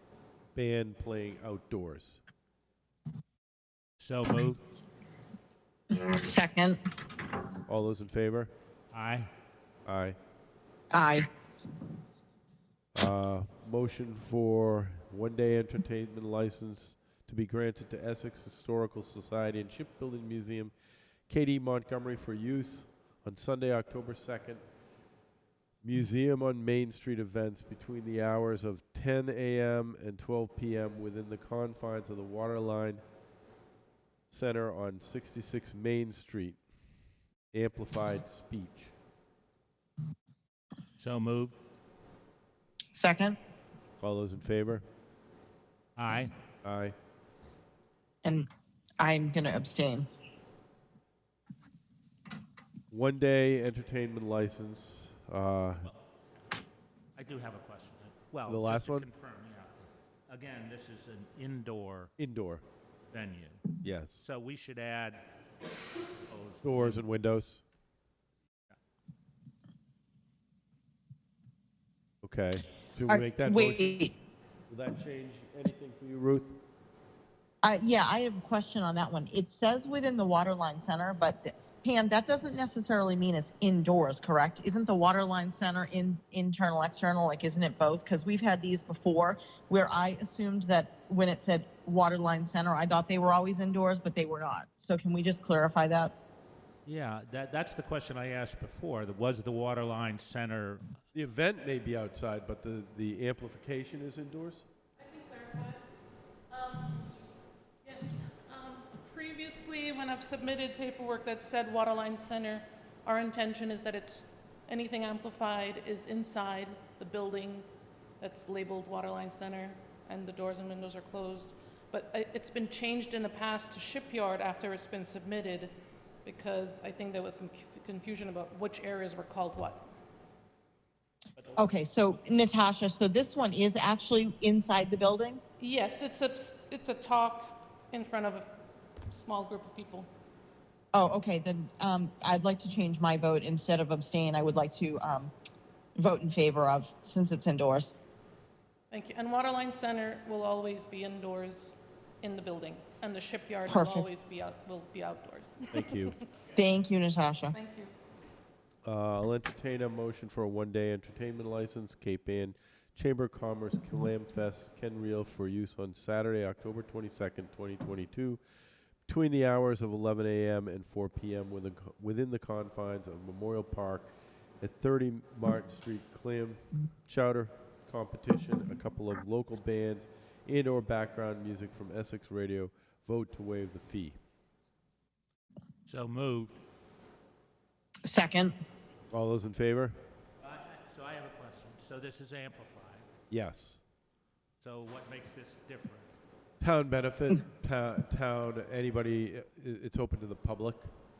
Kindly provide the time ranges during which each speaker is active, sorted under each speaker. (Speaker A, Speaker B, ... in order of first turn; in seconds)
Speaker A: 0.5-2.2, 7.7-8.5, 9.8-10.2, 12.9-20.7, 21.3-24.6, 25.8-33.0, 34.3-36.6, 37.5-38.9, 44.0-44.8, 46.6-46.9, 52.9-55.9, 58.5-59.1, 62.2-62.6, 63.8-64.2, 66.6-67.6, 72.2-74.0, 74.7-76.6, 101.1-104.7, 155.7-156.2, 158.8-168.4, 169.1-174.1, 174.6-184.2, 189.1-189.9, 193.3-193.8, 196.6-200.9
Speaker B: 4.0-4.6, 8.9-9.3, 41.0-41.5, 46.0-46.3, 57.1-62.1, 63.1-65.2, 66.3-67.0, 96.8-101.0, 185.8-186.6, 190.4-193.1, 194.6-196.2
Speaker C: 5.9-6.8, 10.9-11.3, 42.9-43.4, 49.0-50.1, 73.1-74.2, 77.6-96.1, 131.5-135.4, 140.9-145.3, 145.9-148.0, 153.7-154.1, 156.5-157.6, 188.0-188.5
Speaker D: 105.0-105.8, 106.5-107.1, 107.8-117.5, 118.2-125.7, 126.2-129.8, 135.6-138.4, 139.1-140.1, 148.9-151.6, 152.2-156.2